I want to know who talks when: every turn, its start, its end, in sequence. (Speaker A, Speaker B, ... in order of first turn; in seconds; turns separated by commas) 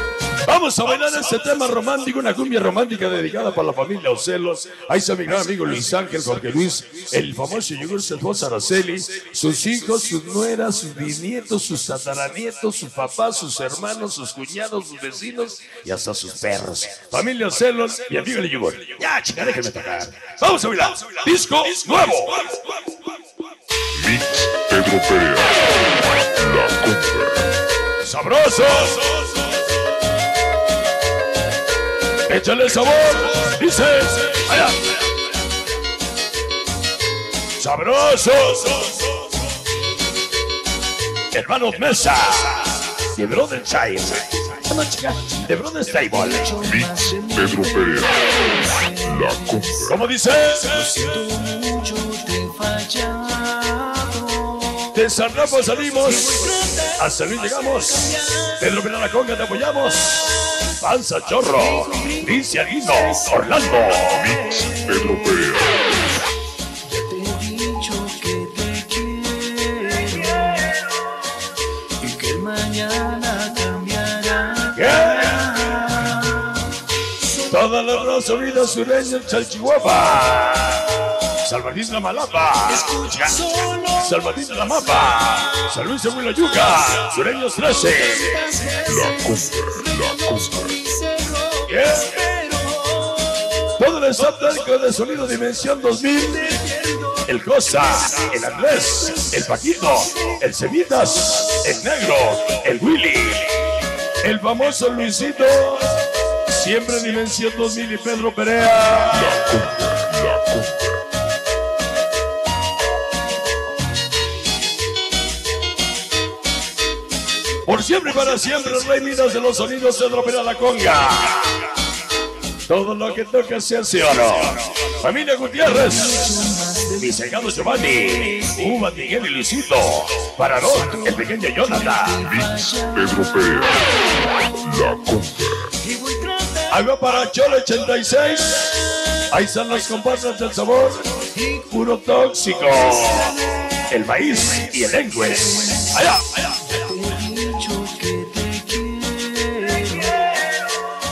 Speaker A: 0.5-22.5, Speaker B: 23.9-25.6, Speaker B: 26.2-27.5, Speaker A: 28.0-29.3, Speaker A: 32.3-34.9, Speaker A: 37.6-39.0, Speaker A: 41.3-46.5, Speaker C: 46.1-50.0, Speaker B: 46.6-48.2, Speaker B: 49.0-50.1, Speaker A: 49.9-50.8, Speaker C: 50.6-55.0, Speaker A: 54.9-64.2, Speaker C: 56.0-58.7, Speaker C: 61.5-66.2, Speaker B: 64.1-65.8, Speaker C: 66.8-71.3, Speaker C: 72.0-77.5, Speaker A: 74.7-76.2, Speaker A: 77.5-83.4, Speaker C: 82.7-85.7, Speaker A: 84.0-88.4, Speaker C: 87.9-93.6, Speaker B: 88.9-90.7, Speaker A: 91.7-92.2, Speaker A: 93.8-96.6, Speaker C: 96.3-97.3, Speaker A: 97.3-103.7, Speaker A: 104.2-106.0, Speaker A: 106.5-109.6, Speaker B: 109.1-111.0, Speaker A: 117.7-121.7, Speaker A: 122.7-126.3, Speaker C: 125.6-128.7, Speaker A: 127.0-132.2, Speaker C: 130.8-135.1, Speaker B: 132.2-133.9, Speaker B: 134.6-135.7, Speaker C: 135.8-136.8, Speaker A: 136.7-141.1, Speaker C: 141.2-141.7, Speaker A: 141.7-146.7, Speaker C: 142.7-144.2, Speaker C: 145.3-146.0, Speaker C: 146.7-150.8